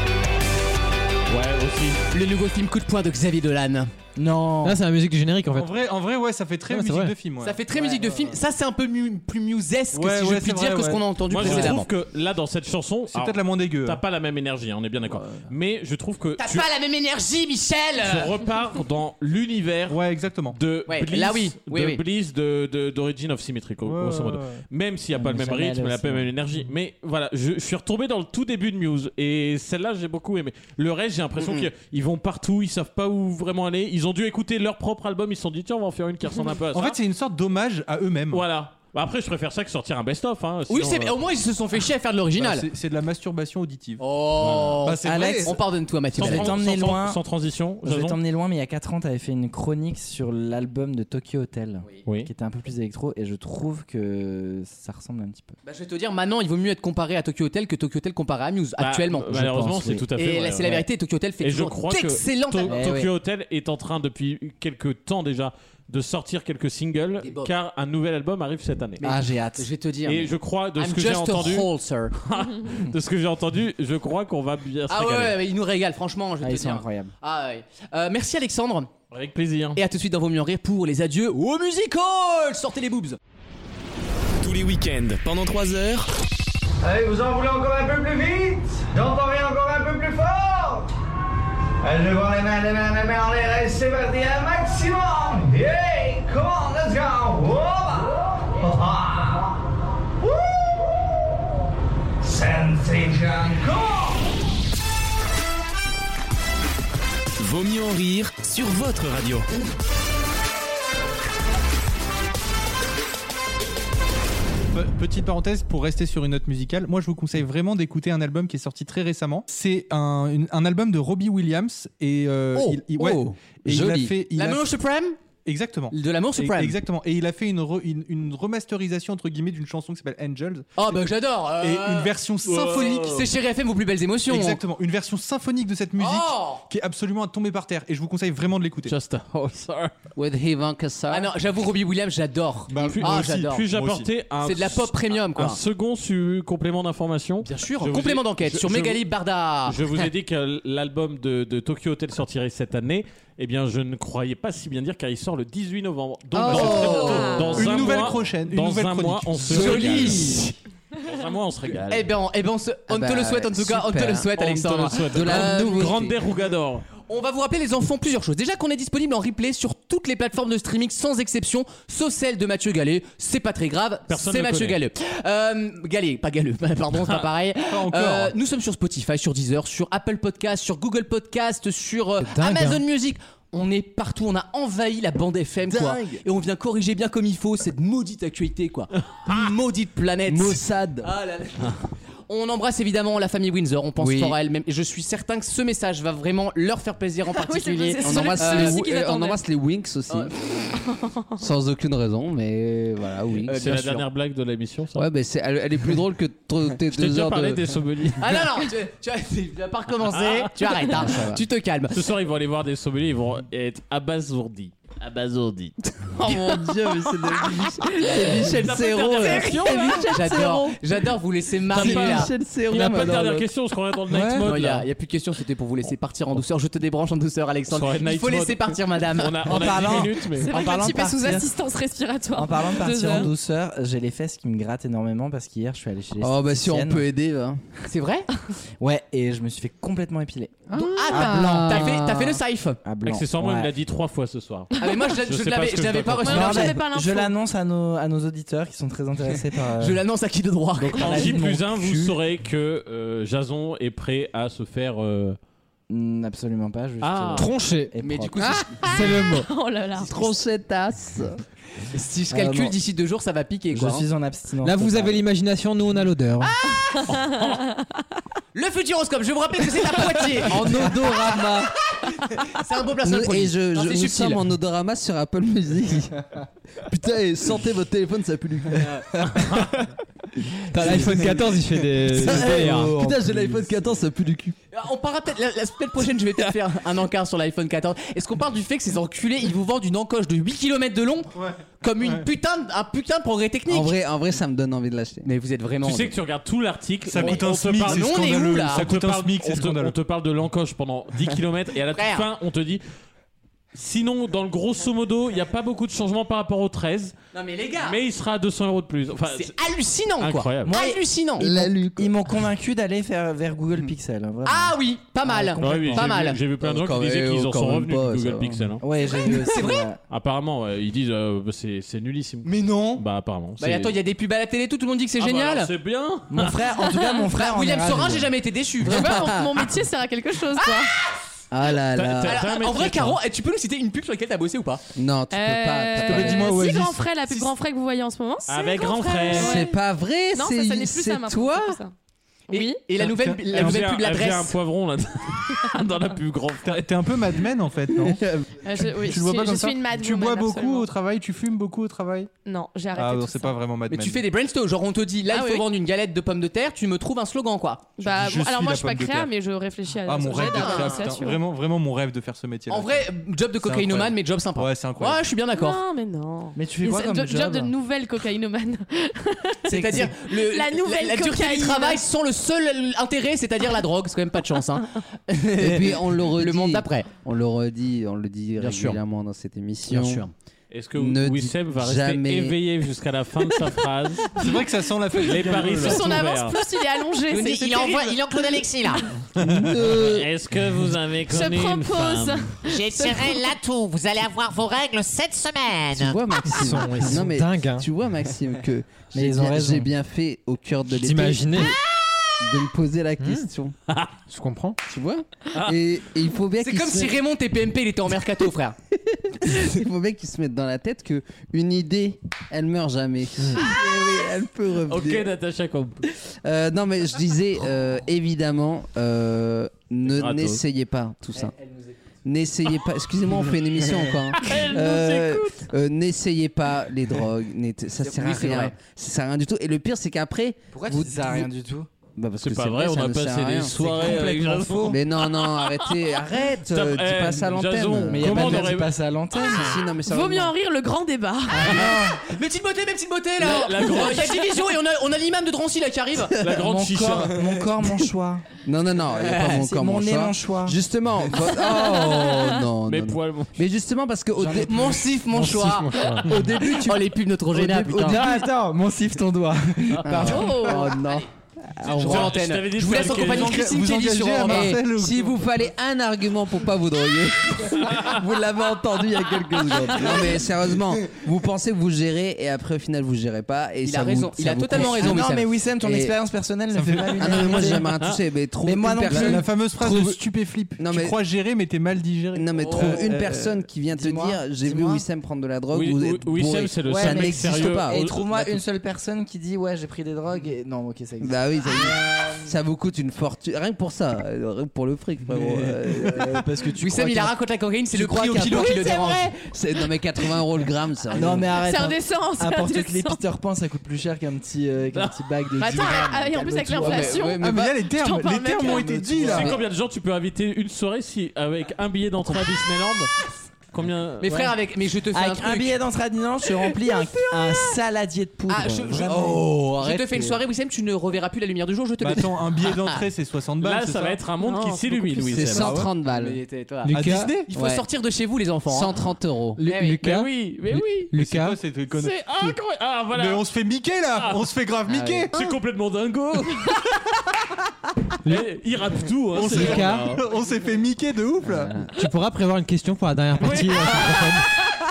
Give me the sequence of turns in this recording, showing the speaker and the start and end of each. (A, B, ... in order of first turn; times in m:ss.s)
0:01.3-0:02.0 A
0:02.1-0:03.9 B
0:04.2-0:04.8 C
0:04.6-0:05.7 D
0:05.5-0:08.4 E
0:06.7-0:07.1 D
0:07.4-0:11.9 B
0:09.9-0:11.8 E
0:11.3-0:16.7 A
0:13.1-0:14.0 E
0:16.4-0:18.3 B
0:18.0-0:37.0 A
0:19.9-0:20.6 E
0:20.9-0:22.0 B
0:23.8-0:24.6 E
0:25.1-0:26.3 C
0:36.7-0:38.4 E
0:38.3-0:41.2 A
0:40.7-0:42.6 B
0:42.4-0:45.6 E
0:44.0-0:46.6 B
0:44.4-0:44.8 A
0:45.0-0:45.6 C
0:46.1-0:47.2 C
0:46.1-0:48.2 A
0:47.8-0:55.5 C
0:52.0-0:52.3 A
0:55.6-0:59.3 B
0:58.8-1:00.8 A
0:59.3-1:00.1 C
1:00.2-1:02.9 B
1:01.4-1:09.1 A
1:02.7-1:03.1 C
1:07.2-1:07.5 B
1:09.0-1:12.1 B
1:09.0-1:09.7 C
1:10.0-1:15.4 A
1:14.9-1:18.9 B
1:16.4-1:17.1 C
1:19.1-1:19.8 A
1:19.7-1:23.2 B
1:24.4-1:26.1 F
1:26.8-1:30.9 G
1:31.8-1:39.6 G
1:40.2-1:41.0 G
1:42.2-1:44.2 G
1:47.4-1:49.5 F
1:54.7-2:04.7 E
2:02.5-2:03.3 B
2:03.6-2:04.2 H
2:04.2-2:05.2 B
2:05.4-2:11.0 E
2:05.9-2:06.8 B
2:10.8-2:14.6 B
2:11.6-2:13.2 E
2:12.4-2:13.2 A
2:14.3-2:19.0 E
2:16.0-2:16.6 B
2:18.8-2:19.9 A
2:20.2-2:21.3 H
2:21.1-2:23.6 B
2:22.7-2:24.1 E
2:22.8-2:29.0 A
2:24.4-2:25.6 B
2:27.4-2:29.8 B
2:29.7-2:40.5 A
2:36.3-2:37.7 H
2:36.4-2:40.3 E
2:36.4-2:37.7 B
2:39.5-2:40.5 B
2:39.9-2:40.4 C
2:41.0-2:42.1 A
2:41.7-2:46.0 B
2:42.9-2:44.3 H
2:44.4-2:46.8 A
2:45.0-2:46.2 H
2:47.1-3:18.8 B
2:54.1-2:54.8 A
2:57.7-2:58.3 E
3:02.2-3:02.8 D
3:05.7-3:06.2 H
3:10.3-3:11.1 C
3:14.0-3:14.4 H
3:17.3-3:19.4 I
3:18.0-3:20.4 H
3:20.9-3:21.3 I
3:21.4-3:23.6 H
3:23.4-3:24.0 B
3:23.6-3:25.1 A
3:24.9-3:27.7 H
3:26.8-3:28.6 A
3:28.2-3:32.0 B
3:30.1-3:30.9 A
3:30.9-3:31.4 H
3:31.9-3:35.7 A
3:36.1-3:40.4 H
3:38.0-3:40.5 A
3:40.0-3:42.3 B
3:41.7-3:44.9 A
3:41.8-3:43.4 H
3:42.1-3:43.4 C
3:44.1-3:44.4 D
3:44.4-3:49.6 B
3:47.7-3:50.6 A
3:49.4-3:51.5 C
3:50.4-3:53.3 I
3:52.3-3:57.0 C
3:56.2-3:57.8 H
3:57.9-3:58.3 B
3:58.8-4:01.9 C
4:00.8-4:02.4 H
4:00.8-4:02.8 B
4:02.8-4:03.7 C
4:03.0-4:06.5 A
4:04.8-4:06.8 B
4:06.2-4:07.4 I
4:06.3-4:10.0 C
4:09.8-4:11.4 B
4:10.8-4:15.4 A
4:11.0-4:12.2 C
4:15.9-4:18.6 C
4:17.0-4:17.5 A
4:17.4-4:17.9 D
4:18.0-4:19.1 B
4:18.8-4:19.5 D
4:18.9-4:20.1 I
4:20.0-4:21.3 H
4:21.9-4:24.0 B
4:22.3-4:22.8 C
4:23.7-4:25.2 C
4:24.6-4:26.6 D
4:26.8-4:27.8 I
4:27.1-4:27.4 A
4:28.5-4:31.5 B
4:30.7-4:31.6 C
4:32.1-4:34.4 B
4:33.0-4:36.1 H
4:36.8-4:39.3 H
4:40.7-4:43.0 D
4:40.7-4:41.3 H
4:40.8-4:41.6 C
4:42.1-4:44.5 H
4:42.1-4:43.6 C
4:44.7-4:53.9 B
4:51.4-4:52.3 E
4:53.7-4:55.3 H
4:55.2-4:56.1 B
4:55.8-5:02.8 A
4:57.0-4:59.9 E
4:57.2-4:58.9 B
5:01.9-5:02.2 B
5:03.7-5:07.1 A
5:07.3-5:08.0 B
5:07.8-5:09.5 A
5:09.3-5:11.5 B
5:10.2-5:10.7 A
5:10.6-5:16.2 C
5:11.4-5:12.1 H
5:14.4-5:16.4 B
5:15.6-5:18.8 A
5:16.6-5:18.7 H
5:18.8-5:20.0 C
5:19.1-5:19.9 B
5:20.1-5:24.0 A
5:22.4-5:23.0 E
5:23.6-5:25.7 B
5:25.2-5:26.6 A
5:26.3-5:28.3 C
5:26.8-5:27.3 I
5:27.3-5:29.3 B
5:28.8-5:30.9 I
5:29.0-5:29.5 H
5:30.6-5:30.8 B
5:31.5-5:32.4 H
5:31.9-5:33.2 A
5:32.2-5:34.8 B
5:34.9-5:36.6 H
5:35.3-5:39.8 I
5:36.0-5:37.5 E
5:38.5-5:39.6 A
5:39.3-5:41.8 H
5:40.3-5:41.9 I
5:42.5-5:42.8 I
5:42.5-5:44.6 B
5:43.0-5:43.8 E
5:43.5-5:46.9 A
5:46.6-5:52.3 E
5:48.0-5:48.6 H
5:48.6-5:50.9 I
5:52.4-5:53.6 I
5:52.9-5:54.2 E
5:53.9-5:58.0 B
5:55.3-5:55.7 I
5:58.0-6:01.4 I
5:58.0-5:59.3 E
6:00.0-6:05.2 E
6:00.5-6:01.1 B
6:02.7-6:05.8 B
6:05.5-6:12.0 I
6:06.6-6:07.7 C
6:09.7-6:17.1 B
6:09.7-6:10.0 C
6:15.6-6:20.2 H
6:18.6-6:19.0 B
6:19.9-6:20.3 B
6:20.7-6:24.4 A
6:20.9-6:22.6 H
6:24.4-6:26.2 E
6:25.1-6:28.2 I
6:25.2-6:26.6 A
6:27.3-6:29.0 B
6:27.3-6:29.0 J
6:29.4-6:29.8 E
6:29.4-6:30.3 H
6:29.9-6:32.5 A
6:31.2-6:33.6 I
6:32.6-6:36.2 J
6:35.9-6:41.8 H
6:36.4-6:37.8 D
6:39.1-6:39.9 C
6:41.0-6:41.7 D
6:42.4-6:43.7 H
6:43.2-6:43.4 D
6:44.3-6:44.8 D
6:44.8-6:47.2 H
6:46.6-6:48.8 B
6:49.1-6:55.3 H
6:54.8-6:56.0 A
6:56.2-7:01.5 H
7:00.1-7:00.6 A
7:01.6-7:01.9 B
7:02.2-7:11.5 H
7:04.4-7:05.6 A
7:08.0-7:08.7 B
7:10.8-7:11.9 C
7:12.2-7:14.2 H
7:12.4-7:15.8 A
7:13.8-7:15.0 C
7:14.8-7:18.7 H
7:16.7-7:18.9 A
7:18.0-7:19.8 C
7:19.4-7:20.5 H
7:19.4-7:22.0 I
7:21.5-7:22.2 C
7:21.5-7:26.4 B
7:23.4-7:24.4 A
7:26.4-7:27.3 A
7:26.5-7:28.4 C
7:28.6-7:35.1 H
7:29.2-7:29.6 B
7:29.4-7:30.8 C
7:31.6-7:32.5 I
7:32.8-7:33.5 A
7:34.4-7:35.2 C
7:34.7-7:38.2 B
7:35.4-7:36.1 D
7:35.9-7:36.2 A
7:36.3-7:37.0 C
7:37.5-7:40.6 C
7:37.7-7:38.4 H
7:40.0-7:41.3 H
7:40.2-7:41.0 I
7:41.8-7:44.8 B
7:41.8-7:42.4 H
7:41.8-7:43.8 A
7:42.9-7:45.4 E
7:44.4-7:56.1 H
7:53.8-7:55.4 B
7:54.7-7:57.9 C
7:56.7-7:57.8 E
7:57.1-7:59.4 H
7:57.8-7:58.2 A
7:58.6-8:00.2 C
7:59.0-8:03.7 E
8:00.8-8:01.2 H
8:02.3-8:08.6 H
8:02.6-8:03.1 B
8:03.9-8:05.0 C
8:05.7-8:08.1 A
8:06.8-8:12.2 C
8:11.2-8:16.5 H
8:15.3-8:17.4 C
8:16.8-8:19.3 B
8:17.9-8:19.2 C
8:18.3-8:19.0 E
8:18.8-8:21.5 H
8:18.8-8:19.2 I
8:21.1-8:27.3 C
8:21.4-8:23.2 I
8:25.5-8:29.1 I
8:26.7-8:27.8 H
8:27.4-8:29.6 E
8:28.7-8:29.5 C
8:29.2-8:33.1 A
8:29.3-8:29.6 H
8:33.7-8:34.5 A
8:34.2-8:35.8 B
8:35.1-8:40.4 C
8:38.5-8:43.0 B
8:42.0-8:44.2 E
8:43.6-8:45.9 A
8:44.4-8:45.7 I
8:45.3-8:46.4 H
8:45.6-8:45.9 E
8:46.0-8:46.9 B
8:46.8-8:47.4 D
8:46.9-8:47.5 E
8:47.5-8:48.9 B
8:47.5-8:47.8 H
8:48.7-8:49.6 H
8:49.6-8:51.6 D
8:49.6-8:50.0 B
8:50.0-8:51.1 A
8:51.2-8:52.6 E
8:51.9-8:53.4 A
8:53.1-8:55.3 E
8:54.9-8:55.3 H
8:55.3-8:56.9 A
8:58.2-9:00.2 A
8:59.3-9:01.8 E
8:59.4-9:00.2 D
9:01.4-9:01.9 H
9:01.8-9:04.6 D